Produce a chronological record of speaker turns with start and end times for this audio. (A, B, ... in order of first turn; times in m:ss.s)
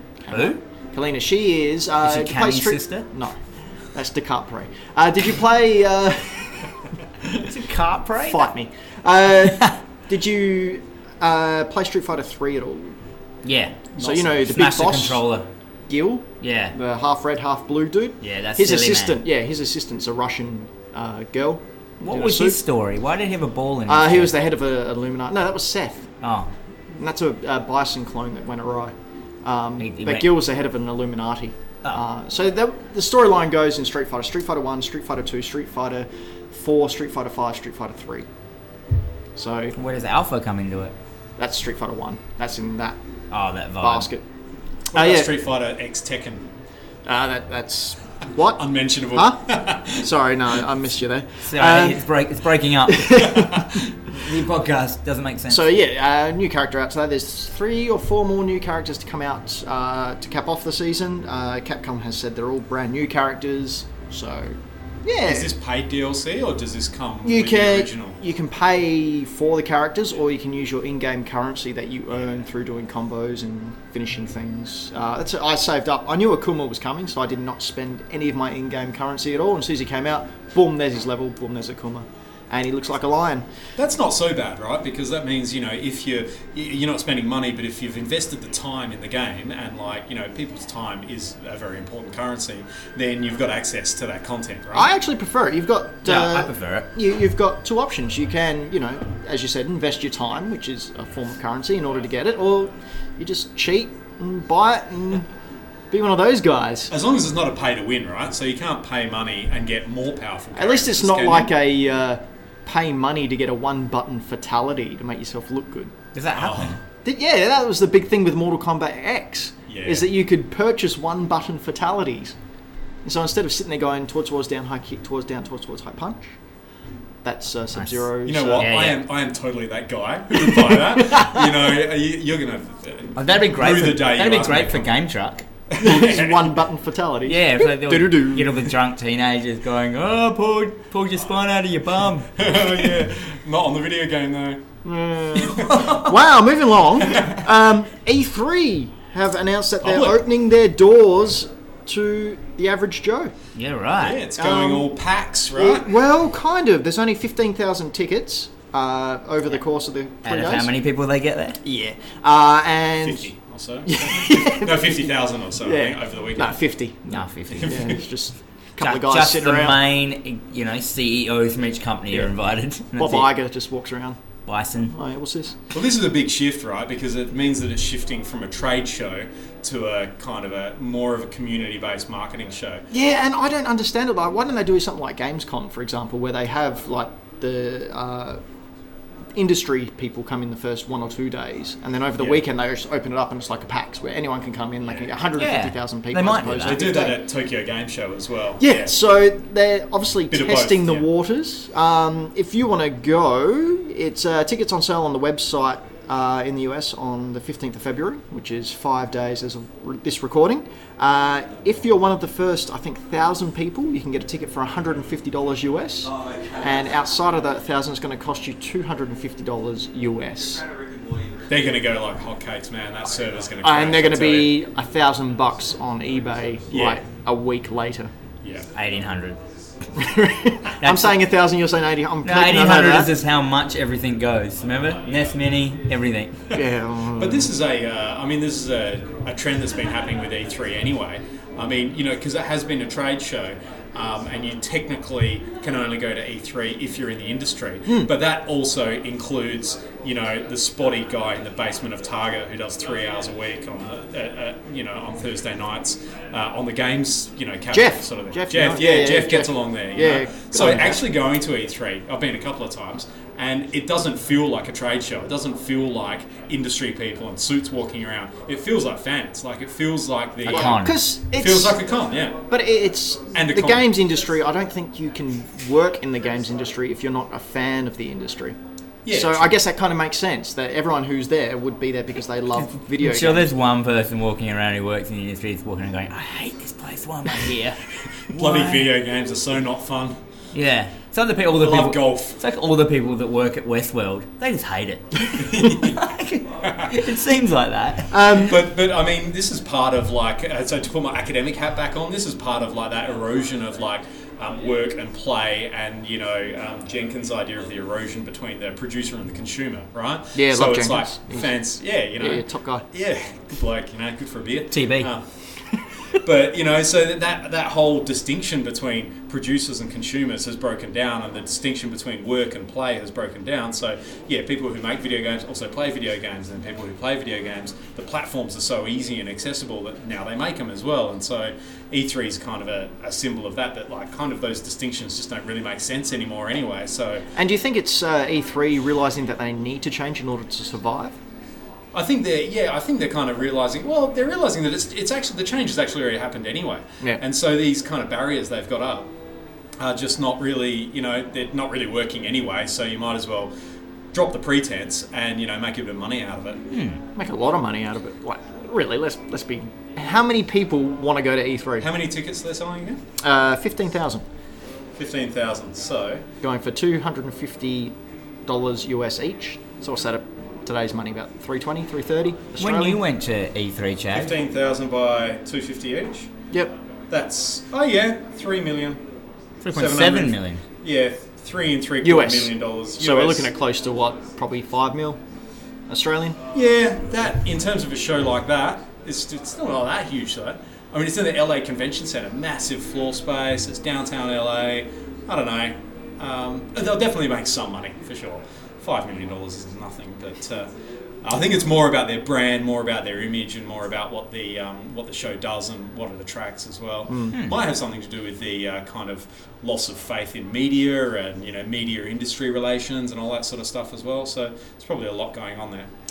0:00.2-0:03.4 A
0:00.3-0:00.6 B
0:02.0-0:03.0 B
0:03.9-0:06.8 A
0:07.4-0:08.5 B
0:08.2-0:13.0 A
0:13.4-0:15.5 B
0:14.0-0:15.2 A
0:14.0-0:14.3 C
0:15.9-0:22.6 A
0:16.4-0:16.7 B
0:18.2-0:19.2 B
0:22.0-0:24.3 B
0:23.9-0:26.1 A
0:26.2-0:26.5 B
0:26.9-0:38.3 A
0:29.8-0:30.3 B
0:39.3-0:39.7 A
0:39.7-0:40.9 B
0:41.4-0:43.0 A
0:43.3-0:44.1 B
0:43.8-0:44.2 A
0:44.9-0:46.5 C
0:44.9-0:45.3 A
0:47.0-0:52.0 A
0:48.6-0:50.1 C
0:51.4-0:53.6 B
0:52.9-0:53.7 A
0:53.2-0:53.9 C
0:54.1-0:55.7 B
0:55.5-1:05.5 A
1:05.2-1:08.2 C
1:07.2-1:23.4 A
1:23.8-1:34.9 C
1:34.7-1:45.3 A
1:36.0-1:36.9 B
1:45.9-1:46.9 A
1:46.9-1:51.5 C
1:50.5-1:55.9 A
1:56.1-1:56.8 B
1:56.3-1:56.8 C
1:57.0-2:02.4 A
1:59.7-2:00.1 C
2:03.0-2:06.3 A
2:07.2-2:08.7 A
2:08.2-2:14.9 C
2:08.6-2:09.0 B
2:10.5-2:11.6 A
2:13.2-2:15.4 B
2:15.7-2:16.5 C
2:15.8-2:18.7 A
2:17.2-2:22.3 B
2:22.4-2:24.6 C
2:24.8-2:33.3 A
2:25.4-2:26.0 C
2:25.6-2:26.1 B
2:27.0-2:27.4 C
2:29.8-2:30.2 C
2:33.6-2:34.2 B
2:34.0-2:36.0 C
2:34.4-2:34.9 A
2:35.5-2:40.7 A
2:40.2-2:41.6 B
2:41.6-2:43.3 A
2:43.0-2:46.6 C
2:43.8-2:45.1 A
2:45.6-2:49.8 A
2:47.1-2:47.9 B
2:47.6-2:48.0 C
2:48.8-2:53.3 B
2:52.9-2:54.2 A
2:54.5-2:54.9 B
2:54.9-2:55.6 A
2:55.7-3:02.9 C
3:02.9-3:08.4 A
3:09.3-3:17.2 A
3:15.4-3:16.8 B
3:16.6-3:18.9 C
3:18.6-3:40.6 A
3:20.3-3:21.1 C
3:41.5-3:44.6 C
3:43.6-3:48.1 A
3:46.7-3:47.0 C
3:48.4-3:48.7 C
3:48.7-3:49.4 B
3:49.9-3:53.1 A
3:50.8-3:51.2 B
3:52.2-3:56.5 B
3:56.5-3:57.5 A
3:57.1-4:32.4 C
4:07.9-4:08.1 A
4:17.7-4:21.0 A
4:30.4-4:31.8 A
4:30.5-4:31.0 B
4:32.5-4:38.6 A
4:33.3-4:33.9 C
4:39.0-4:39.5 C
4:39.1-4:43.5 A
4:42.6-4:47.9 B
4:48.3-4:50.2 C
4:48.4-4:48.8 A
4:50.5-4:58.4 B
4:51.6-4:52.4 C
4:55.3-4:57.0 C
4:58.1-4:58.7 A
4:58.3-5:15.2 C
5:10.3-5:11.5 A
5:12.2-5:12.8 A
5:14.7-5:15.1 B
5:16.1-5:37.3 C
5:37.3-5:41.2 A
5:41.9-5:49.1 C
5:49.8-5:53.5 C
5:54.1-5:56.6 C
5:56.7-5:57.0 B
5:57.1-6:01.9 A
6:01.8-6:03.0 C
6:03.2-6:04.2 A
6:05.0-6:06.2 C
6:06.4-6:07.9 A
6:08.4-6:13.0 A
6:12.6-6:14.3 B
6:14.1-6:16.3 C
6:17.1-6:19.0 C
6:19.6-6:20.6 B
6:19.7-6:23.5 C
6:22.0-6:25.2 A
6:25.9-6:26.4 A
6:26.5-6:40.7 C
6:41.2-6:55.9 C